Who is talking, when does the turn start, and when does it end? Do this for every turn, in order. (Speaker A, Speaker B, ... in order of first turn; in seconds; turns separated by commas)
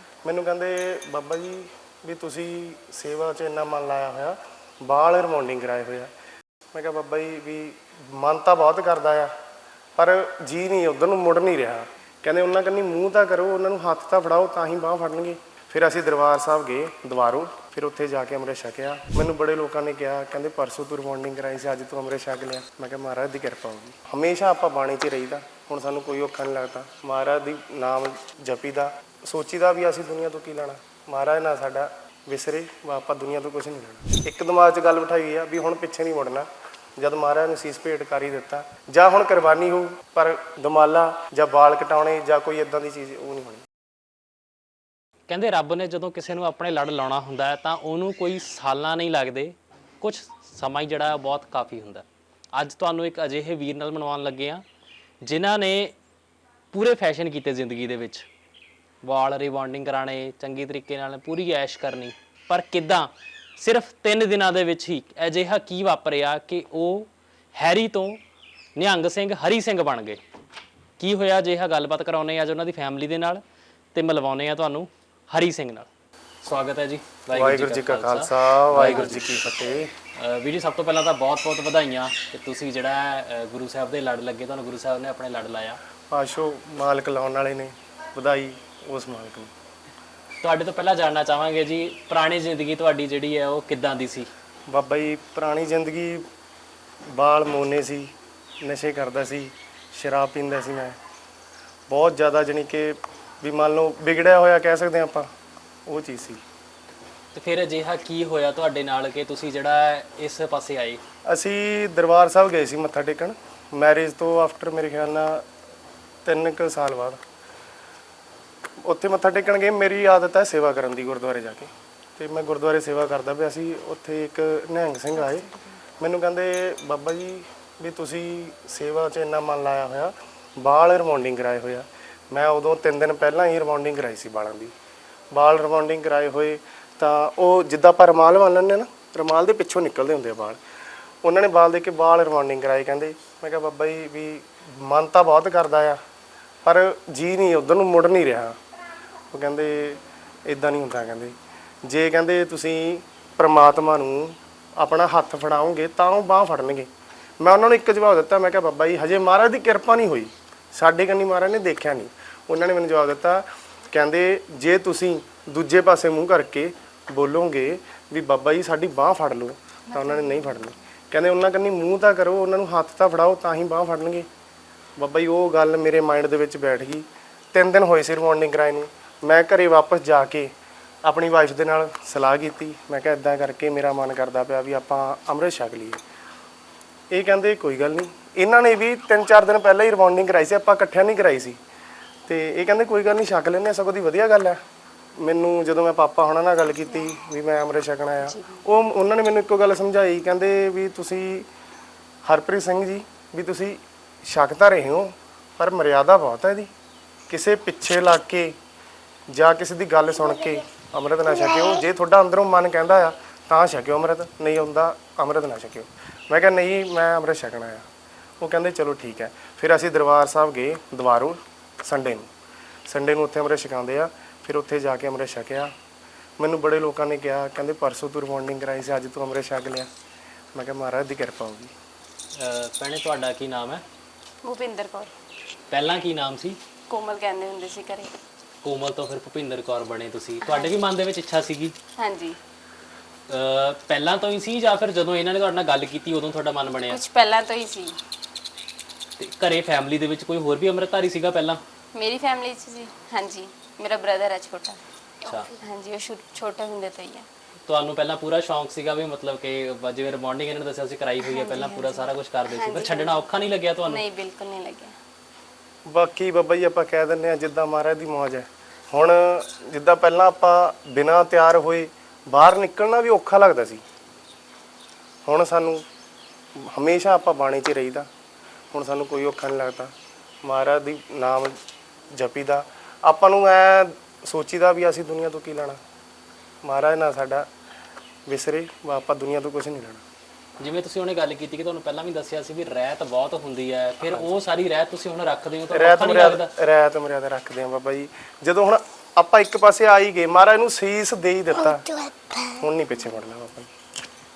Speaker A: 0.2-6.1, Speaker A: 6.7-9.3, Speaker A: 10.0-43.6, Speaker B: 45.3-54.6, Speaker B: 55.2-56.0, Speaker B: 56.7-58.2, Speaker B: 59.0-68.2, Speaker B: 68.8-70.2, Speaker B: 71.0-73.4, Speaker B: 73.9-75.9, Speaker B: 76.4-79.4, Speaker A: 77.3-79.9, Speaker B: 80.1-85.8, Speaker A: 86.1-89.5, Speaker B: 90.4-94.3, Speaker A: 94.7-96.2, Speaker A: 97.1-101.0, Speaker A: 101.9-105.3, Speaker A: 105.9-106.4, Speaker B: 107.3-111.0, Speaker A: 111.3-115.4, Speaker A: 116.2-117.2, Speaker A: 118.8-125.5, Speaker A: 126.0-134.7, Speaker A: 135.3-140.6, Speaker A: 141.2-146.0, Speaker A: 146.6-148.6, Speaker A: 149.3-156.9, Speaker A: 157.4-174.3, Speaker A: 175.0-180.5, Speaker A: 181.0-186.0, Speaker A: 187.1-191.6, Speaker A: 192.3-194.6, Speaker A: 195.2-201.5, Speaker C: 198.2-198.6, Speaker A: 202.2-206.7, Speaker A: 207.3-208.5, Speaker A: 209.3-217.9, Speaker A: 218.4-222.3, Speaker A: 222.9-225.7, Speaker A: 226.4-229.9, Speaker A: 230.5-231.7, Speaker B: 232.3-233.8, Speaker C: 234.4-235.1, Speaker B: 235.7-236.6, Speaker C: 236.9-238.1, Speaker B: 238.6-241.7, Speaker C: 240.4-240.8, Speaker C: 242.0-242.4, Speaker B: 243.3-247.0, Speaker C: 246.9-248.0, Speaker B: 249.2-251.6, Speaker C: 251.9-257.3, Speaker B: 255.2-255.5, Speaker B: 257.6-264.0, Speaker C: 261.2-263.3, Speaker C: 263.9-264.9, Speaker A: 265.9-273.8, Speaker A: 275.2-275.8, Speaker A: 276.6-278.1, Speaker A: 278.7-281.6, Speaker A: 282.1-285.8, Speaker A: 286.6-287.5, Speaker A: 288.3-290.0, Speaker B: 290.6-296.5, Speaker A: 295.7-303.7